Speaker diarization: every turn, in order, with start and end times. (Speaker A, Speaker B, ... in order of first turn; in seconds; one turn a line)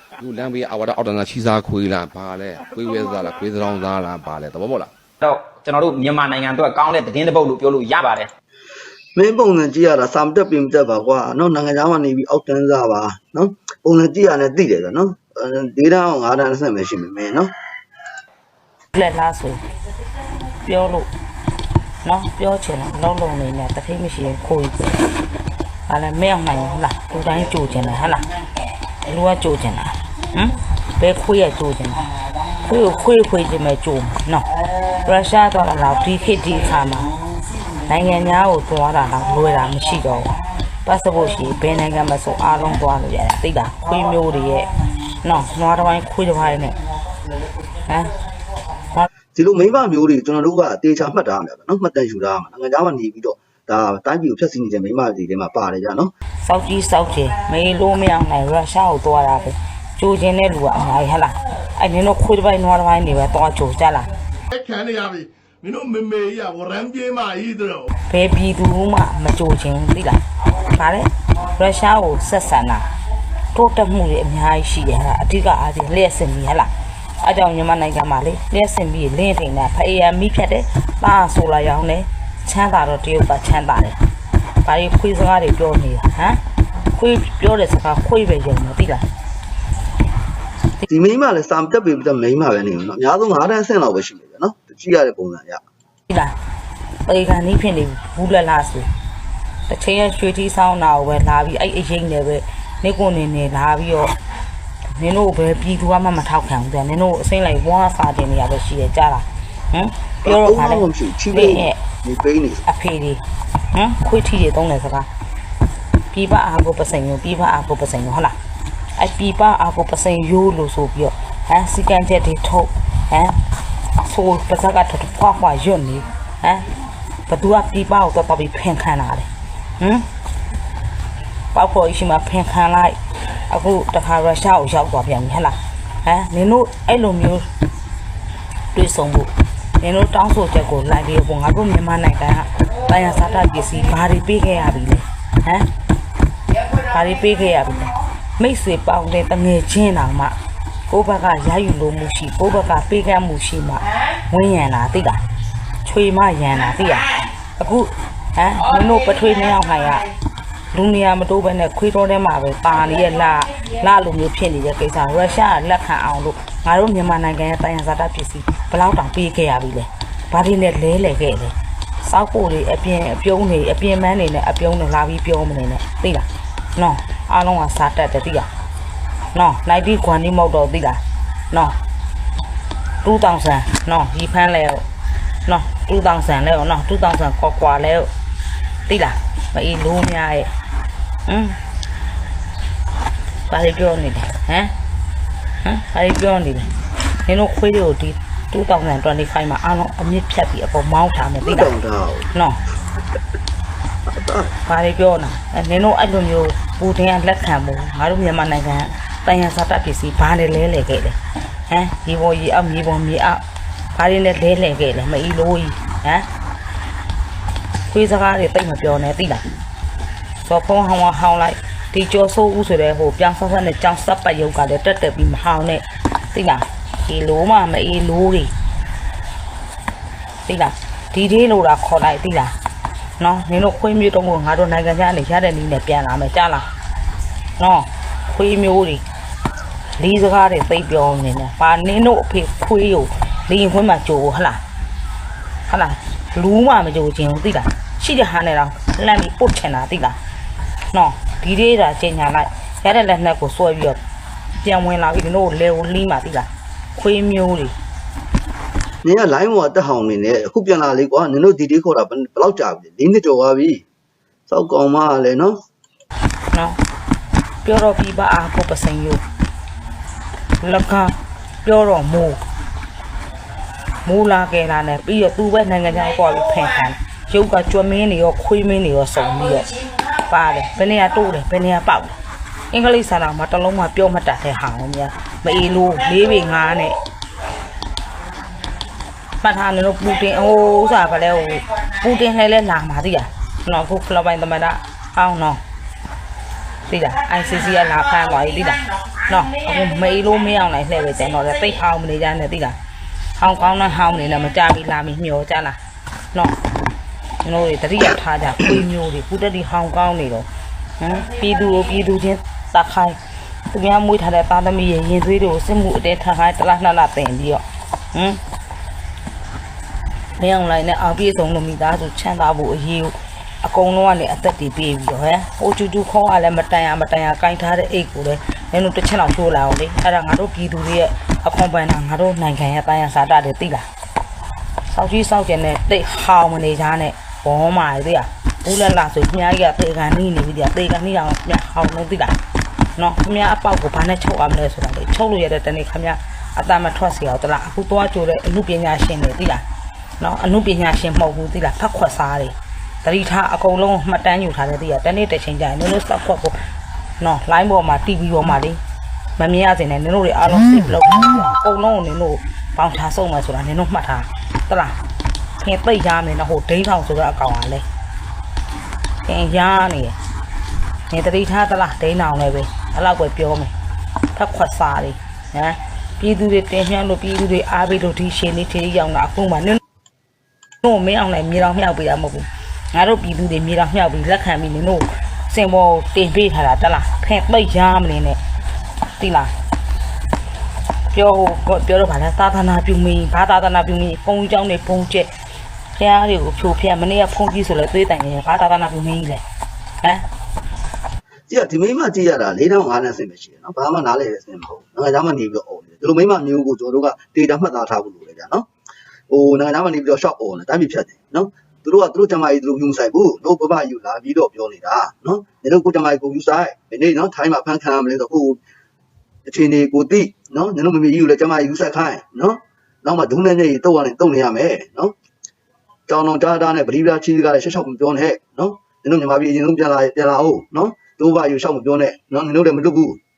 Speaker A: 0.2-4.9
Speaker B: 5.2-8.3
Speaker C: 9.2-17.5
Speaker D: 18.9-19.6
Speaker D: 20.6-21.1
Speaker D: 22.0-24.9
Speaker D: 25.9-28.3
Speaker D: 29.1-32.0
Speaker D: 32.6-34.5
Speaker D: 35.0-37.1
Speaker D: 37.9-44.7
Speaker D: 45.2-46.8
Speaker C: 49.4-56.1
Speaker D: 56.4-64.1
Speaker E: 64.5-67.9
Speaker D: 68.1-72.9
Speaker D: 73.5-84.0
Speaker D: 84.6-86.4
Speaker D: 86.9-89.0
Speaker C: 90.9-95.6
Speaker D: 96.1-96.3
Speaker D: 97.0-98.9
Speaker D: 99.7-104.1
Speaker D: 105.0-111.8
Speaker C: 110.2-112.7
Speaker D: 112.7-115.1
Speaker D: 116.1-118.4
Speaker D: 119.0-123.4
Speaker D: 124.0-126.7
Speaker D: 127.3-129.3
Speaker D: 129.8-130.1
Speaker D: 131.5-137.5
Speaker D: 138.7-145.7
Speaker D: 146.8-150.3
Speaker D: 150.9-155.2
Speaker D: 155.8-160.1
Speaker D: 160.7-178.5
Speaker D: 179.3-181.8
Speaker D: 183.0-184.8
Speaker D: 185.5-188.1
Speaker D: 188.9-190.5
Speaker D: 191.3-191.6
Speaker D: 193.5-194.7
Speaker D: 195.6-196.7
Speaker D: 197.3-201.7
Speaker C: 201.5-202.3
Speaker D: 202.3-202.6
Speaker C: 204.1-204.5
Speaker D: 204.7-211.2
Speaker D: 211.7-213.4
Speaker D: 213.9-216.3
Speaker D: 217.9-219.4
Speaker D: 220.4-228.5
Speaker D: 230.5-232.6
Speaker D: 233.2-236.7
Speaker D: 237.6-239.0
Speaker D: 240.0-244.6
Speaker D: 245.7-250.2
Speaker D: 250.9-254.0
Speaker D: 254.6-257.8
Speaker C: 259.0-263.8
Speaker C: 264.5-265.6
Speaker D: 266.5-266.8
Speaker D: 267.6-269.2
Speaker D: 270.6-272.4
Speaker D: 274.1-282.1
Speaker D: 282.7-287.0
Speaker D: 289.4-295.6
Speaker D: 296.9-302.8
Speaker D: 303.4-305.8
Speaker D: 307.4-310.5
Speaker D: 311.0-313.2
Speaker D: 313.7-318.4
Speaker D: 320.4-333.9
Speaker D: 334.9-342.4
Speaker D: 343.0-349.6
Speaker D: 350.2-356.6
Speaker D: 357.2-358.8
Speaker D: 359.4-365.0
Speaker D: 365.6-367.9
Speaker D: 369.2-370.2
Speaker D: 371.1-373.7
Speaker D: 374.4-379.8
Speaker D: 380.8-388.4
Speaker D: 389.2-389.5
Speaker D: 391.1-395.3
Speaker D: 396.0-399.4
Speaker C: 401.5-408.7
Speaker C: 409.3-418.6
Speaker C: 419.5-425.1
Speaker C: 426.1-433.2